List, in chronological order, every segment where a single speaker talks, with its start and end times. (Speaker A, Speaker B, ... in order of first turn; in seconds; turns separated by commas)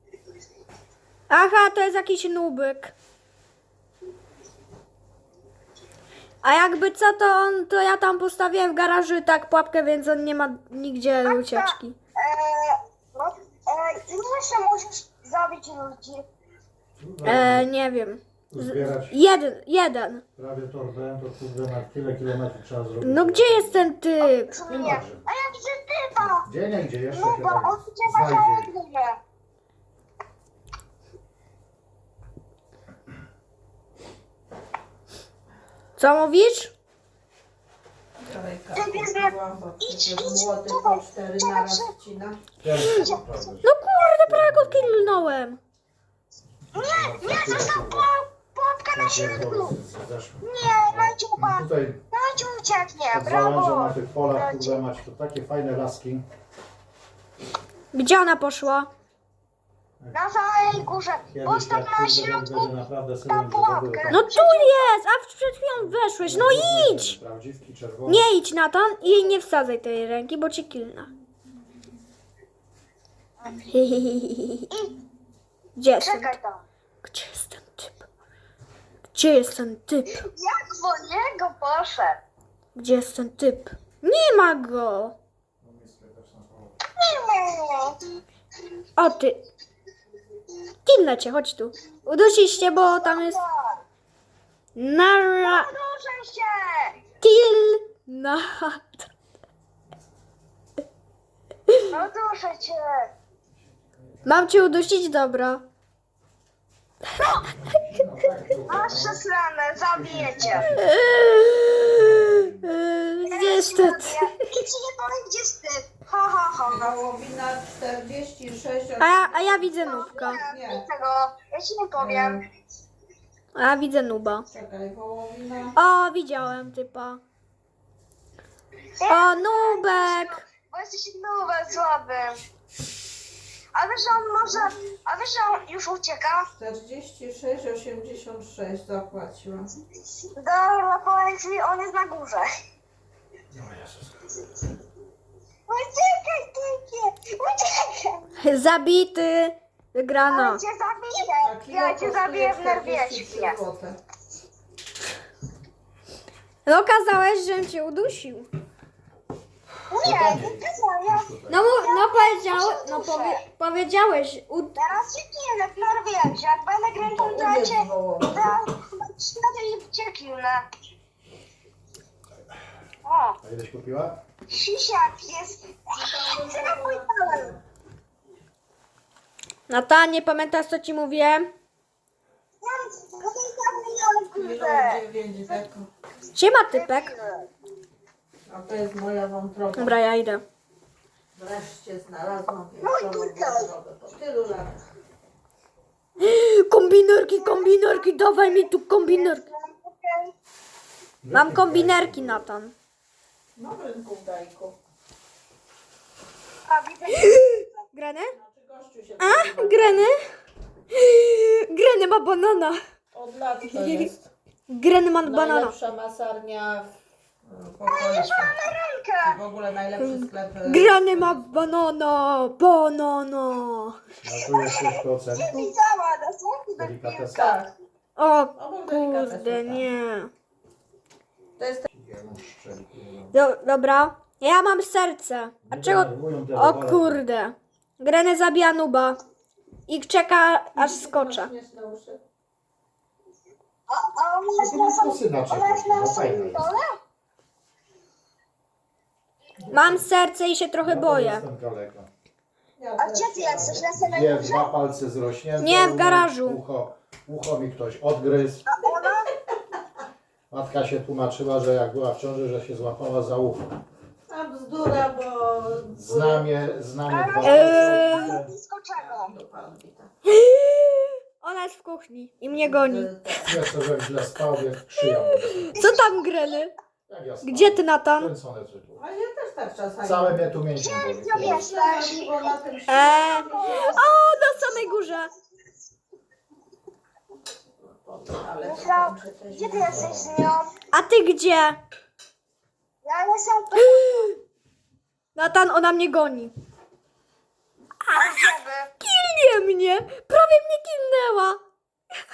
Speaker A: 1.3-3.0, Speaker A: 6.4-12.0, Speaker B: 11.3-16.2, Speaker C: 17.0-17.7, Speaker A: 17.2-20.2, Speaker C: 18.5-19.2, Speaker C: 20.4-23.9, Speaker A: 23.0-24.6, Speaker B: 24.2-26.5, Speaker C: 24.7-25.2, Speaker C: 26.2-28.7, Speaker B: 27.1-29.2, Speaker A: 36.0-36.7, Speaker D: 38.2-42.4, Speaker B: 38.8-41.9, Speaker C: 42.6-43.7, Speaker B: 42.9-43.5, Speaker A: 43.6-45.6, Speaker C: 44.2-45.3, Speaker B: 46.7-49.8, Speaker C: 46.8-48.1, Speaker C: 48.9-52.0, Speaker B: 50.4-54.8, Speaker C: 53.1-56.3, Speaker A: 57.9-58.9, Speaker B: 60.1-62.7, Speaker C: 61.3-64.3, Speaker B: 63.3-64.9, Speaker A: 64.1-67.2, Speaker C: 65.8-68.3, Speaker A: 68.1-71.1, Speaker A: 73.7-74.7, Speaker B: 74.7-75.0, Speaker A: 75.8-76.4, Speaker B: 76.0-76.6, Speaker A: 77.0-78.1, Speaker A: 79.1-80.2, Speaker B: 80.2-82.2, Speaker A: 82.8-85.2, Speaker C: 85.6-86.8, Speaker B: 87.0-88.0, Speaker A: 89.0-89.4, Speaker A: 90.9-93.4, Speaker B: 92.6-93.8, Speaker A: 94.8-95.7, Speaker B: 95.4-97.0, Speaker A: 97.2-99.1, Speaker B: 101.9-103.1, Speaker C: 103.7-104.8, Speaker A: 104.2-105.6, Speaker A: 107.2-107.8, Speaker C: 107.6-109.2, Speaker B: 108.7-110.8, Speaker C: 109.9-112.7, Speaker A: 110.7-114.2, Speaker B: 113.2-117.0, Speaker D: 116.7-120.8, Speaker A: 119.0-120.4, Speaker B: 119.7-122.4, Speaker D: 122.0-122.4, Speaker A: 123.5-124.5, Speaker D: 124.5-125.8, Speaker A: 125.8-127.2, Speaker B: 129.0-132.4, Speaker A: 129.1-130.4, Speaker B: 133.7-136.5, Speaker D: 136.5-139.7, Speaker B: 140.4-142.5, Speaker C: 143.5-144.1, Speaker B: 145.7-148.2, Speaker A: 148.4-150.6, Speaker B: 150.3-153.6, Speaker D: 151.4-154.0, Speaker A: 156.7-158.5, Speaker B: 159.9-163.4, Speaker C: 160.0-161.7, Speaker A: 161.5-164.8, Speaker B: 164.8-170.6, Speaker D: 167.0-168.6, Speaker B: 173.1-173.4, Speaker C: 173.4-174.2, Speaker B: 174.5-177.6, Speaker D: 176.0-177.6, Speaker A: 179.7-181.5, Speaker B: 182.6-185.0, Speaker D: 184.3-185.9, Speaker A: 186.3-187.1, Speaker B: 186.7-187.5, Speaker D: 188.5-189.9, Speaker A: 189.8-190.4, Speaker D: 191.3-194.8, Speaker B: 192.8-193.7, Speaker A: 196.2-199.4, Speaker B: 197.4-200.3, Speaker C: 201.2-202.5, Speaker A: 201.3-202.7, Speaker D: 203.6-204.8, Speaker B: 206.7-207.8, Speaker A: 207.3-208.3, Speaker D: 208.4-210.1, Speaker A: 209.2-210.2, Speaker A: 210.9-212.8, Speaker D: 213.1-214.3, Speaker A: 213.7-214.1, Speaker A: 214.7-215.8, Speaker D: 215.2-216.9, Speaker D: 217.4-218.6, Speaker B: 217.9-219.4, Speaker D: 219.2-221.5, Speaker A: 220.0-224.0, Speaker C: 224.2-225.6, Speaker B: 224.4-227.4, Speaker C: 226.8-227.6, Speaker D: 227.3-227.7, Speaker A: 228.2-230.3, Speaker D: 228.6-229.9, Speaker D: 231.6-231.9, Speaker C: 231.9-233.3, Speaker A: 233.3-239.2, Speaker C: 235.7-237.2, Speaker A: 239.9-241.5, Speaker D: 240.8-242.2, Speaker B: 243.9-247.0, Speaker C: 244.6-246.7, Speaker D: 249.6-250.0, Speaker A: 249.7-251.4, Speaker C: 250.8-252.1, Speaker D: 252.8-253.9, Speaker B: 253.0-254.7, Speaker C: 253.6-258.6, Speaker A: 255.6-256.6, Speaker B: 258.7-259.3, Speaker C: 260.5-263.7, Speaker D: 264.3-266.5, Speaker C: 265.9-268.5, Speaker B: 267.1-269.3, Speaker A: 267.4-268.4, Speaker D: 268.9-270.1, Speaker A: 270.3-273.4, Speaker D: 272.5-273.5, Speaker C: 273.4-275.8, Speaker A: 274.9-276.7, Speaker B: 275.7-276.6, Speaker C: 277.1-279.0, Speaker A: 277.4-278.3, Speaker D: 279.0-280.5, Speaker C: 280.0-281.7, Speaker B: 280.8-285.2, Speaker D: 281.4-284.5, Speaker A: 282.9-285.3, Speaker D: 287.8-290.0, Speaker B: 288.6-290.7, Speaker C: 289.9-290.4, Speaker A: 290.9-291.8, Speaker B: 293.0-294.3, Speaker A: 293.8-294.4, Speaker A: 295.4-296.5, Speaker A: 298.1-301.6, Speaker B: 298.1-298.9